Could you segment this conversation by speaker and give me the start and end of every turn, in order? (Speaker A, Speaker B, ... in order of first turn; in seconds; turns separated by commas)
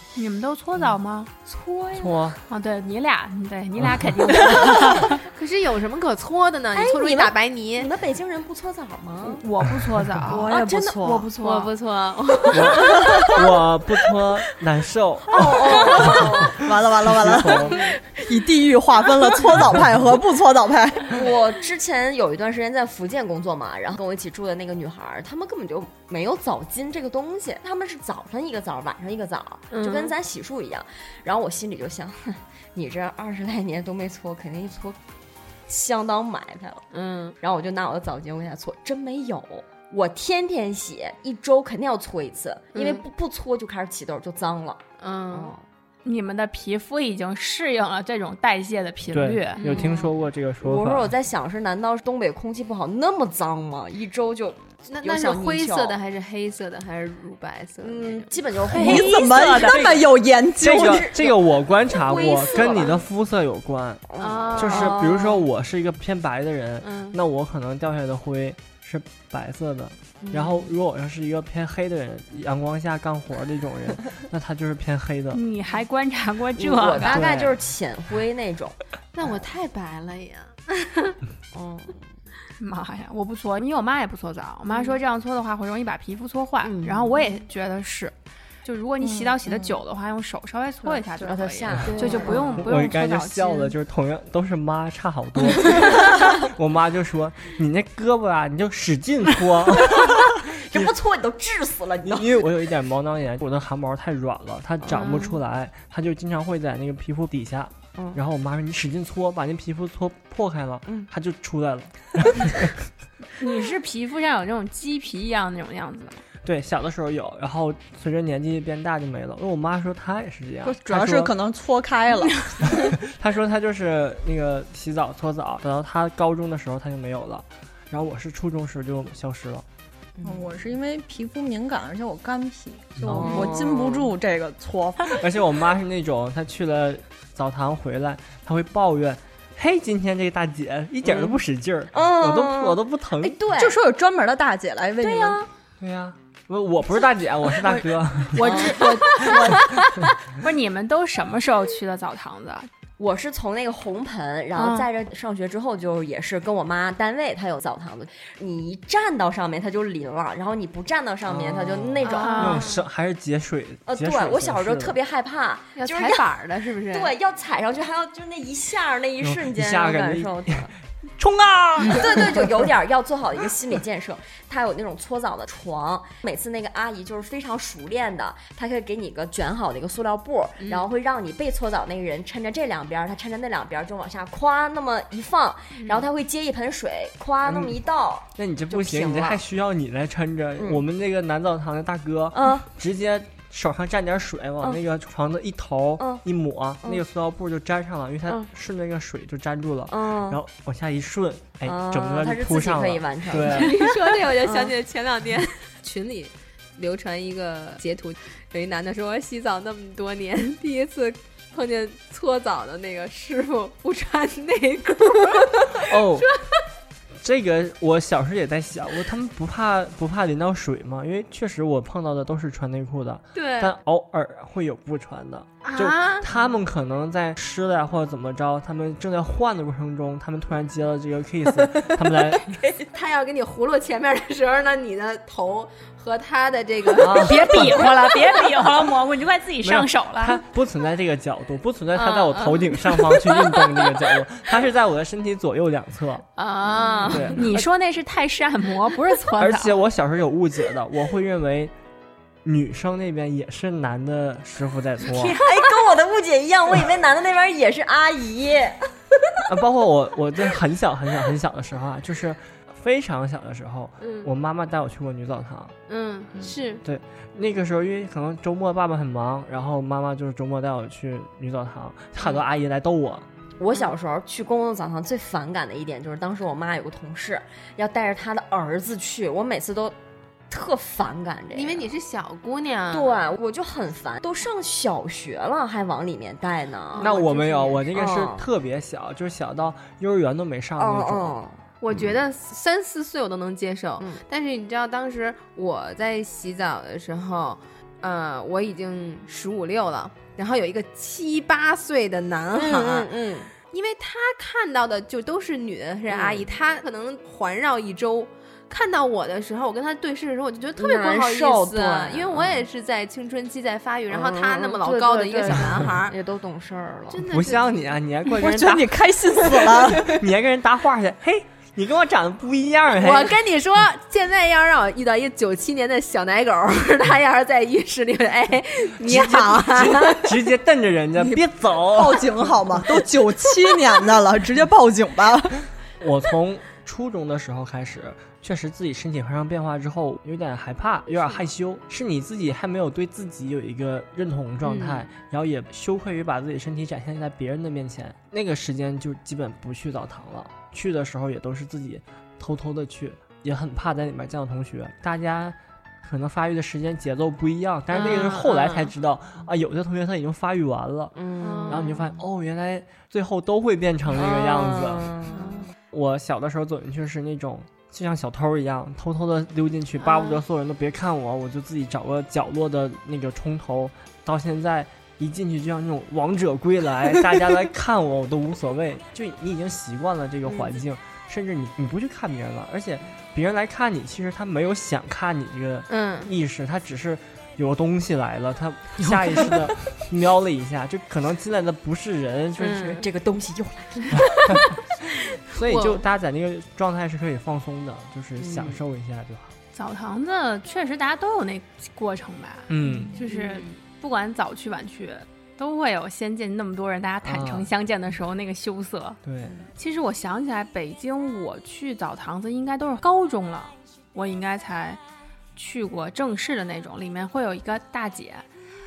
Speaker A: 0.2-1.3, Speaker B: 1.5-2.2, Speaker C: 1.9-2.4, Speaker A: 2.5-5.2, Speaker C: 3.8-4.3, Speaker D: 5.0-7.9, Speaker B: 6.8-9.4, Speaker A: 9.2-11.7, Speaker E: 10.2-11.3, Speaker B: 10.4-11.1, Speaker D: 11.4-13.3, Speaker C: 12.5-17.8, Speaker E: 13.0-13.3, Speaker B: 15.3-16.6, Speaker D: 15.8-16.1, Speaker E: 16.1-21.2, Speaker B: 17.6-18.0, Speaker B: 21.1-35.0, Speaker D: 29.7-30.2, Speaker B: 35.7-36.8, Speaker D: 36.9-37.4, Speaker B: 37.4-45.6, Speaker D: 42.7-43.0, Speaker D: 45.0-45.5, Speaker A: 46.0-49.6, Speaker C: 49.1-51.1, Speaker D: 49.6-50.1, Speaker B: 49.7-50.0, Speaker B: 50.6-56.0, Speaker D: 54.9-58.3, Speaker B: 57.8-60.0, Speaker A: 58.7-59.9, Speaker E: 58.7-61.1, Speaker C: 60.6-75.4, Speaker B: 60.6-63.0, Speaker D: 62.1-62.9, Speaker B: 64.1-65.5, Speaker D: 64.2-65.0, Speaker D: 66.8-67.2, Speaker B: 70.2-70.7, Speaker A: 75.3-77.2, Speaker B: 76.6-79.5, Speaker C: 77.1-77.6, Speaker D: 79.2-81.2, Speaker B: 81.5-82.0, Speaker A: 82.6-93.7, Speaker B: 86.6-87.2, Speaker E: 89.0-89.5, Speaker B: 90.9-92.7, Speaker C: 91.7-92.0, Speaker D: 91.9-92.5, Speaker C: 92.6-101.0, Speaker B: 99.8-102.4, Speaker C: 102.0-112.8, Speaker B: 104.8-105.4, Speaker B: 108.0-108.2, Speaker A: 113.4-116.2, Speaker C: 116.4-121.3, Speaker E: 120.7-122.9, Speaker C: 122.8-129.7, Speaker B: 130.2-130.5, Speaker E: 130.2-135.2, Speaker C: 133.0-133.6, Speaker B: 133.1-134.1, Speaker C: 135.1-143.4, Speaker B: 141.0-141.4, Speaker B: 141.9-143.8, Speaker E: 143.5-145.4, Speaker B: 145.0-145.5, Speaker C: 145.8-148.4, Speaker A: 148.3-149.6, Speaker E: 148.4-149.6, Speaker B: 148.4-149.7, Speaker D: 148.8-149.5, Speaker A: 150.4-152.7, Speaker B: 153.0-162.8, Speaker A: 154.6-154.9, Speaker C: 161.3-165.0, Speaker D: 162.1-162.8, Speaker A: 162.1-162.6, Speaker B: 163.9-170.7, Speaker D: 165.8-167.1, Speaker C: 169.2-172.7, Speaker B: 171.8-189.4, Speaker D: 180.6-180.9, Speaker D: 185.8-186.1, Speaker C: 187.4-187.8, Speaker C: 188.3-203.8, Speaker B: 192.3-192.7, Speaker B: 199.9-200.4, Speaker B: 201.6-204.7, Speaker D: 203.3-216.6, Speaker C: 215.7-216.3, Speaker C: 217.2-232.6, Speaker D: 223.3-223.8, Speaker D: 225.6-226.4, Speaker D: 232.9-237.9, Speaker C: 237.0-238.0, Speaker A: 237.2-240.4, Speaker C: 239.6-246.3, Speaker D: 241.9-244.2, Speaker D: 246.4-247.4, Speaker A: 246.6-249.8, Speaker C: 247.1-247.7, Speaker C: 249.4-251.7, Speaker C: 252.4-255.4, Speaker D: 255.1-255.9, Speaker B: 255.4-259.4, Speaker C: 259.5-265.8, Speaker D: 264.0-264.3, Speaker D: 265.9-266.8, Speaker C: 266.4-273.3, Speaker B: 273.6-280.0, Speaker B: 280.5-281.9, Speaker D: 281.5-283.2, Speaker B: 282.9-288.4, Speaker D: 286.9-287.8, Speaker C: 287.0-291.4, Speaker B: 290.8-292.1, Speaker D: 291.8-303.1, Speaker B: 302.5-303.5, Speaker D: 303.7-316.1, Speaker B: 306.1-306.5, Speaker B: 310.8-312.6, Speaker B: 314.1-317.2, Speaker D: 317.1-318.0, Speaker C: 317.2-319.1, Speaker E: 318.4-320.2, Speaker C: 319.6-323.4, Speaker D: 322.9-330.4, Speaker C: 329.0-332.5, Speaker E: 331.2-335.6, Speaker C: 336.0-365.1, Speaker D: 344.6-345.1, Speaker B: 357.9-358.9, Speaker D: 358.0-358.4, Speaker B: 361.1-362.1, Speaker D: 361.4-362.0, Speaker B: 364.1-365.7, Speaker D: 365.3-365.7, Speaker C: 365.9-392.9, Speaker D: 370.1-370.3, Speaker D: 385.9-386.3, Speaker D: 392.6-393.1, Speaker B: 392.7-394.6, Speaker D: 394.2-394.7, Speaker C: 395.5-399.6, Speaker D: 395.5-396.0, Speaker B: 398.4-398.8, Speaker A: 399.7-409.2, Speaker C: 402.7-403.2, Speaker B: 402.9-403.1, Speaker D: 402.9-403.7, Speaker C: 407.2-407.7, Speaker C: 409.2-409.6, Speaker A: 409.8-415.0, Speaker A: 415.6-418.5